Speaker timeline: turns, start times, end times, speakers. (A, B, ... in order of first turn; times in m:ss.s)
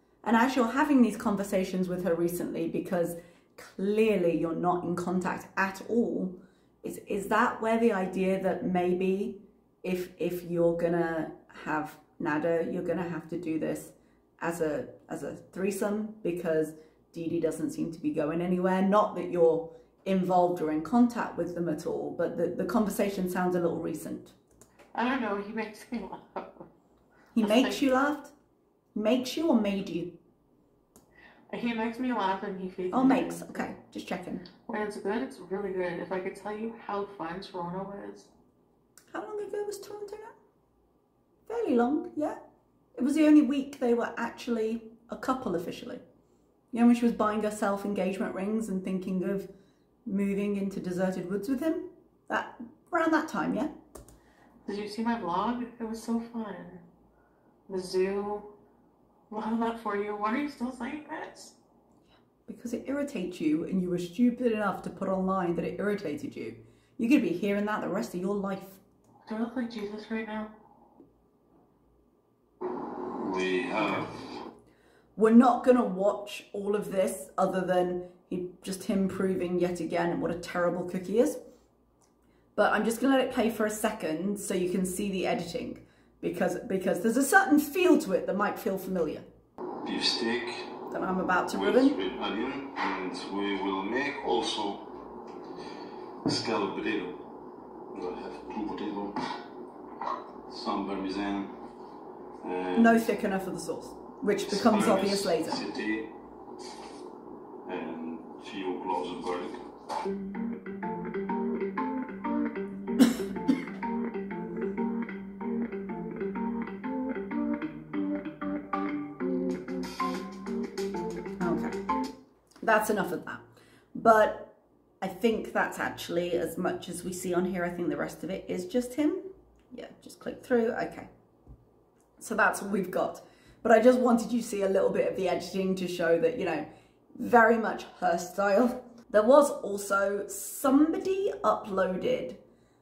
0:00.2-0:24.3 A
0:24.9-0:26.7 B
0:27.4-0:28.3 A
0:27.4-0:27.8 B
0:29.0-0:30.1 A
0:31.5-0:33.6 B
0:32.9-0:34.5 A
0:34.7-0:38.3 B
0:39.1-0:40.4 A
0:41.5-0:42.4 A
0:43.0-0:46.0 A
0:46.7-0:49.5 A
0:50.1-0:53.7 A
0:54.7-0:56.8 B
0:57.7-0:58.5 B
0:59.3-1:01.5 B
1:02.5-1:08.8 A
1:09.3-1:10.5 B
1:13.1-1:14.4 C
1:15.2-1:21.4 A
1:22.6-1:29.2 A
1:29.8-1:30.8 C
1:30.9-1:32.0 A
1:31.5-1:35.0 C
1:36.2-1:37.2 C
1:37.9-1:39.2 C
1:40.5-1:41.5 C
1:42.4-1:43.1 C
1:42.8-1:45.6 A
1:44.5-1:46.1 C
1:47.6-1:49.6 C
2:01.4-2:01.8 A
2:02.6-2:03.4 A
2:03.9-2:11.1 A
2:12.2-2:22.4 A